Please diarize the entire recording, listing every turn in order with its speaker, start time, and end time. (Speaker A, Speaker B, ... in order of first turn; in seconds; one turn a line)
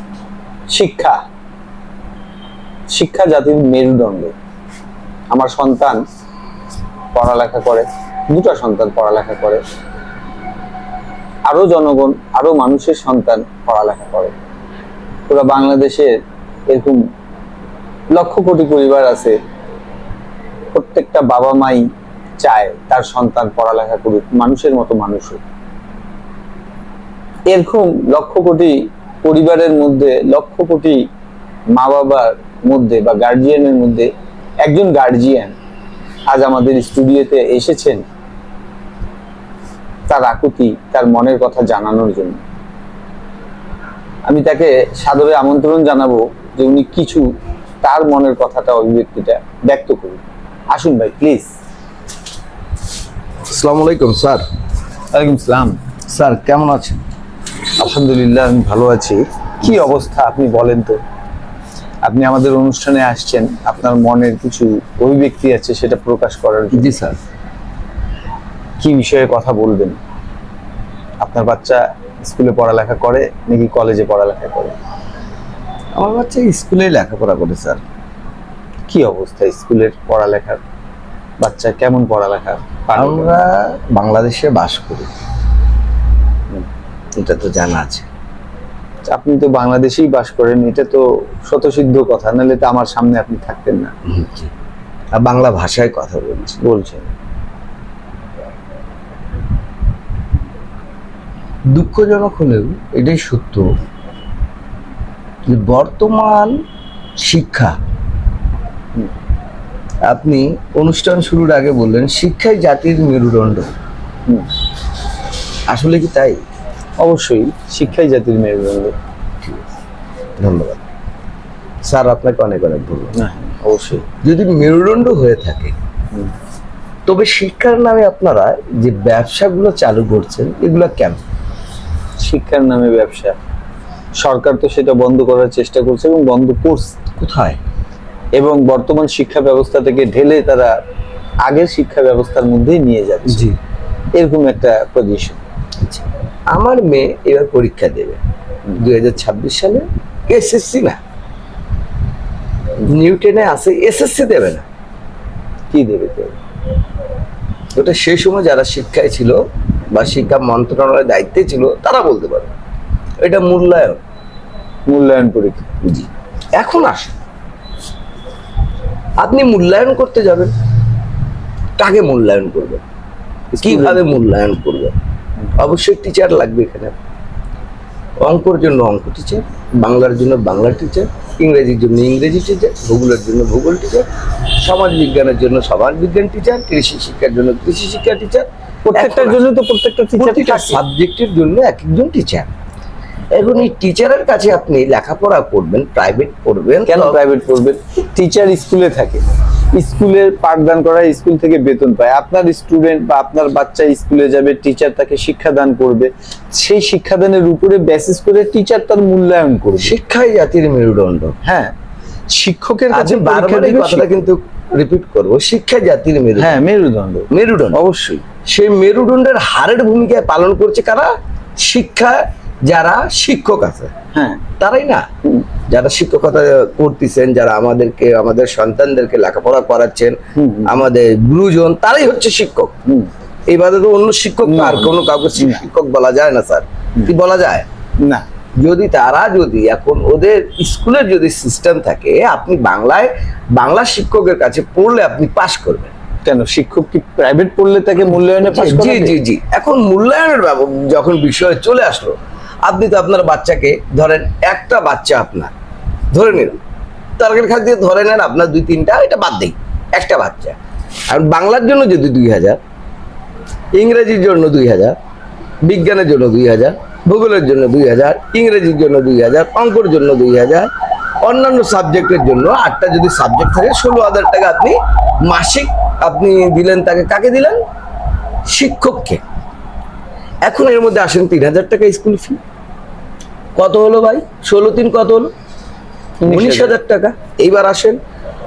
Speaker A: 0.7-1.2
Speaker A: 2.9-4.3
Speaker A: 5.3-6.0
Speaker A: 7.1-9.6
Speaker A: 11.5-14.3
Speaker A: 15.3-16.1
Speaker A: 16.7-17.0
Speaker A: 18.1-19.3
Speaker A: 20.7-21.8
Speaker A: 22.4-25.4
Speaker A: 27.5-31.0
Speaker A: 31.7-34.1
Speaker A: 34.6-35.5
Speaker A: 36.3-38.0
Speaker A: 40.1-42.4
Speaker A: 44.2-47.2
Speaker A: 47.8-50.2
Speaker A: 50.7-51.5
Speaker B: 53.5-54.4
Speaker A: 55.1-55.8
Speaker B: 56.1-57.0
Speaker A: 57.8-61.0
Speaker A: 62.0-66.9
Speaker B: 66.7-67.2
Speaker A: 68.8-70.0
Speaker A: 71.2-74.8
Speaker B: 76.0-77.8
Speaker A: 78.9-80.6
Speaker A: 81.4-83.4
Speaker B: 83.0-85.1
Speaker B: 87.2-88.0
Speaker A: 89.1-93.9
Speaker B: 94.1-94.5
Speaker B: 95.2-96.6
Speaker A: 96.6-97.1
Speaker B: 101.7-103.7
Speaker B: 105.4-106.6
Speaker B: 107.2-107.7
Speaker B: 110.0-113.7
Speaker B: 115.7-116.4
Speaker A: 117.0-118.9
Speaker B: 119.4-119.7
Speaker B: 120.4-120.8
Speaker B: 121.9-123.1
Speaker A: 123.1-124.0
Speaker B: 124.2-125.7
Speaker B: 127.1-131.2
Speaker A: 132.2-133.3
Speaker A: 134.2-136.9
Speaker B: 137.2-137.6
Speaker A: 138.4-140.7
Speaker A: 141.4-143.5
Speaker B: 143.3-143.6
Speaker A: 144.2-145.4
Speaker B: 145.8-148.2
Speaker B: 148.8-151.0
Speaker B: 152.8-154.6
Speaker A: 155.7-156.3
Speaker B: 157.7-159.3
Speaker B: 159.9-162.5
Speaker B: 163.2-164.0
Speaker A: 164.9-165.7
Speaker B: 165.8-167.1
Speaker B: 169.2-170.5
Speaker B: 171.8-172.8
Speaker A: 173.5-174.1
Speaker B: 173.6-174.9
Speaker B: 175.6-176.9
Speaker B: 178.2-184.1
Speaker B: 184.6-189.4
Speaker A: 188.8-190.8
Speaker B: 190.2-192.5
Speaker B: 193.3-197.2
Speaker A: 196.9-199.2
Speaker A: 199.7-209.9
Speaker B: 209.8-211.3
Speaker A: 211.4-211.7
Speaker A: 212.3-214.2
Speaker B: 212.9-216.6
Speaker A: 216.4-218.2
Speaker B: 217.3-217.8
Speaker B: 218.4-223.9
Speaker A: 224.1-224.4
Speaker B: 224.6-225.0
Speaker B: 225.7-232.7
Speaker A: 230.3-230.8
Speaker B: 233.5-237.6
Speaker A: 234.4-235.6
Speaker B: 238.6-245.9
Speaker A: 246.2-249.1
Speaker B: 248.4-255.5
Speaker B: 256.1-256.6
Speaker B: 257.2-260.6
Speaker B: 261.1-262.6
Speaker B: 263.8-264.9
Speaker B: 265.6-270.7
Speaker B: 271.2-277.6
Speaker B: 278.5-279.2
Speaker B: 280.4-282.4
Speaker B: 283.6-285.3
Speaker A: 286.2-286.7
Speaker B: 286.2-288.0